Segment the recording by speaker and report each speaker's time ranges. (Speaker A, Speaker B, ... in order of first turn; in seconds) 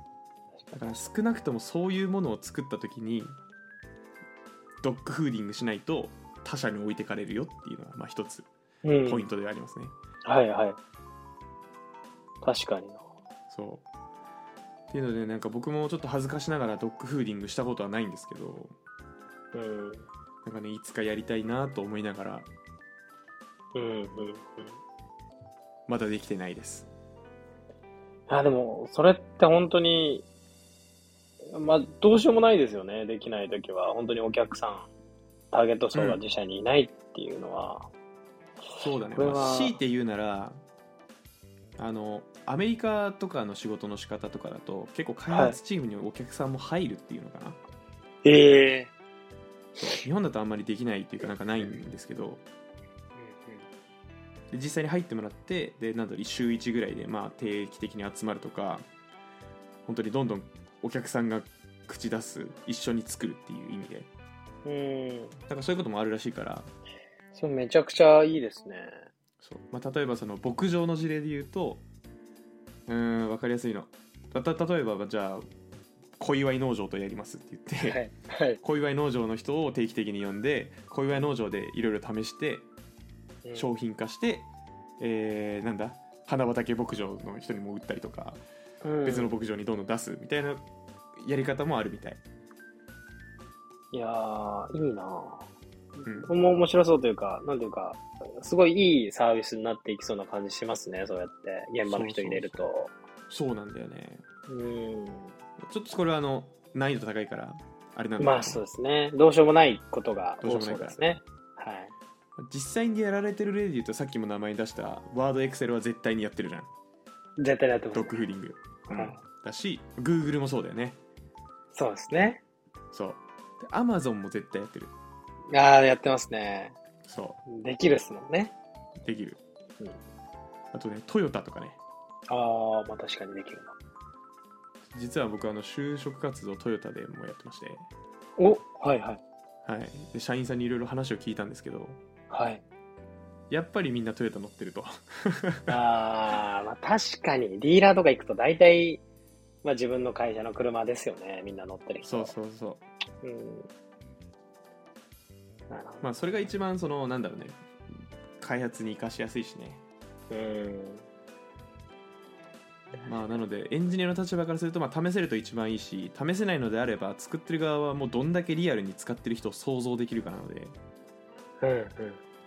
Speaker A: 0.6-1.0, 8.8-9.3, 10.2-10.8, 12.4-13.1, 19.5-20.1, 23.7-24.8, 28.3-30.3, 31.5-34.9, 35.5-37.9, 39.1-39.8, 45.3-45.6, 48.2-48.9, 53.1-53.7, 64.7-65.4, 67.3-69.1, 77.8-78.6, 83.4-83.7, 88.8-89.3, 93.9-95.5, 96.0-102.9, 104.5-105.3, 108.2-111.9, 117.4-118.2, 118.9-119.2, 121.7-122.4, 125.5-126.8, 127.5-128.5, 132.3-133.7, 138.4-139.2, 142.3-142.6, 145.7-149.0, 149.6-152.3, 153.2-153.7, 155.7-156.2, 160.3-161.1, 163.0-163.4, 171.6-172.2
Speaker B: 0.7-3.4, 4.8-8.5, 9.1-9.9, 13.5-13.9, 14.9-18.8, 20.4-22.5, 25.9-26.9, 38.8-40.6, 41.8-47.6, 49.8-52.4, 54.5-58.9, 59.9-64.1, 65.5-66.7, 69.4-71.8, 72.9-75.5, 76.2-78.0, 78.6-82.7, 83.5-84.5, 85.0-88.4, 89.0-90.7, 91.2-92.2, 96.0-96.3, 101.8-102.6, 103.3-104.2, 105.6-108.6, 110.4-111.0, 112.4-116.7, 117.9-121.0, 122.9-124.9, 127.0-127.4, 129.0-129.4, 130.7-131.8, 134.9-137.9, 139.7-142.0, 143.5-145.7, 152.0-152.9, 156.0-159.8, 163.0-170.8